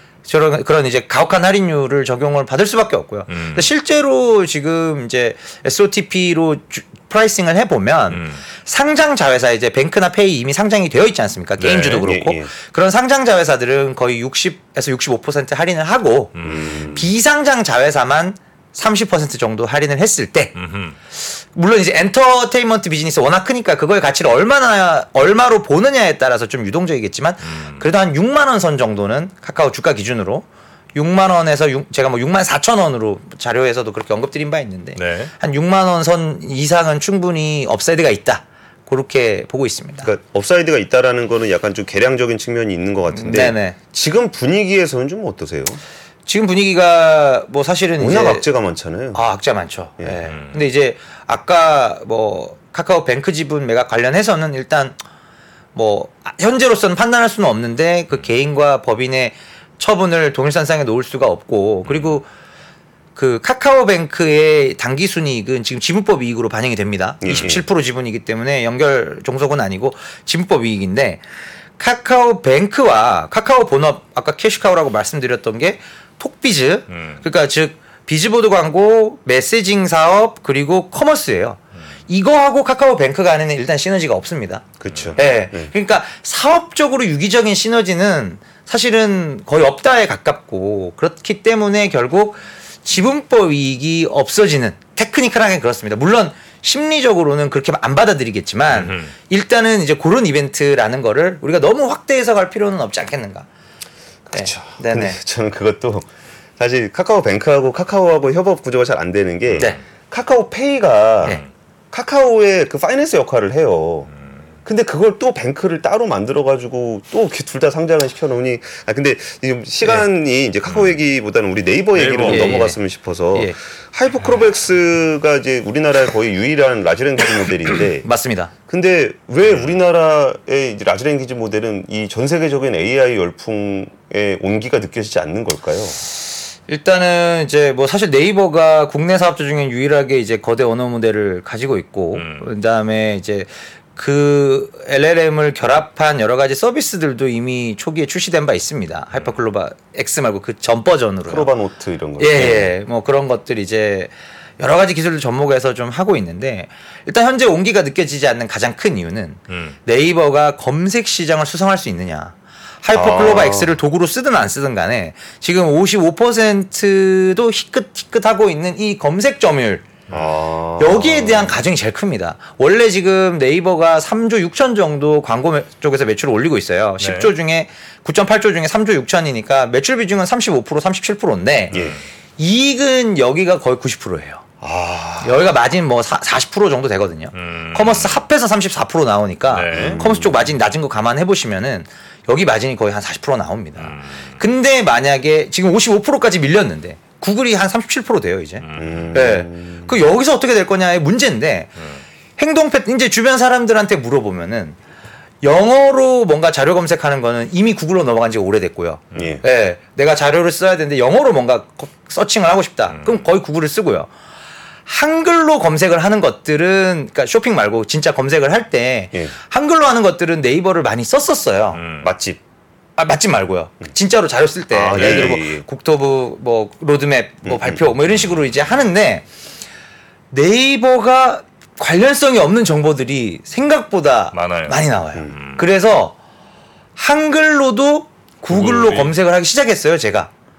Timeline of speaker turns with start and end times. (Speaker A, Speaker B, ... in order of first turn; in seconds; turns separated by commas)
Speaker A: 0.3-20.5, Speaker B: 3.3-3.7, Speaker B: 8.1-8.4, Speaker B: 11.6-12.1, Speaker C: 12.0-12.5, Speaker B: 16.4-16.7, Speaker C: 16.4-17.1, Speaker B: 20.6-21.0, Speaker A: 21.6-40.1, Speaker B: 27.4-27.8, Speaker B: 35.0-35.3, Speaker C: 40.0-45.8, Speaker A: 43.1-43.8, Speaker A: 46.3-48.5, Speaker C: 48.0-49.2, Speaker A: 49.1-55.0, Speaker B: 50.3-50.6, Speaker A: 55.8-62.3, Speaker B: 61.9-62.2, Speaker A: 63.2-71.2, Speaker C: 67.2-67.6, Speaker A: 71.8-84.7, Speaker B: 76.9-77.2, Speaker C: 84.8-85.7, Speaker B: 84.9-85.2, Speaker A: 85.2-103.5, Speaker B: 98.7-99.1, Speaker C: 104.3-111.4, Speaker A: 104.3-105.2, Speaker B: 109.5-109.8, Speaker C: 111.9-114.1, Speaker C: 114.7-128.1, Speaker B: 120.7-121.0, Speaker B: 121.9-122.7, Speaker A: 122.2-122.8, Speaker A: 128.0-128.5, Speaker C: 128.7-136.0, Speaker A: 136.7-151.5, Speaker B: 142.2-142.5, Speaker C: 151.3-152.7, Speaker A: 152.2-169.9, Speaker B: 159.5-159.8, Speaker C: 162.9-163.8, Speaker C: 170.1-171.6, Speaker A: 170.8-181.8, Speaker B: 177.0-177.3, Speaker B: 181.7-182.0, Speaker C: 181.7-182.0, Speaker A: 182.4-184.4, Speaker C: 184.6-185.4, Speaker A: 185.2-201.8, Speaker B: 187.3-188.2, Speaker B: 189.5-190.0, Speaker C: 189.7-190.4, Speaker B: 193.8-194.4, Speaker B: 198.6-199.3, Speaker C: 198.8-199.9, Speaker A: 202.4-204.8, Speaker A: 205.4-214.1, Speaker C: 209.2-209.4, Speaker B: 212.9-213.2, Speaker A: 214.9-221.8, Speaker B: 221.8-222.1, Speaker C: 222.0-222.4, Speaker A: 223.0-229.2, Speaker C: 224.7-225.7, Speaker C: 227.5-227.8, Speaker B: 228.3-228.7, Speaker A: 230.3-236.2, Speaker B: 234.3-235.7, Speaker A: 237.0-240.3, Speaker B: 238.5-239.1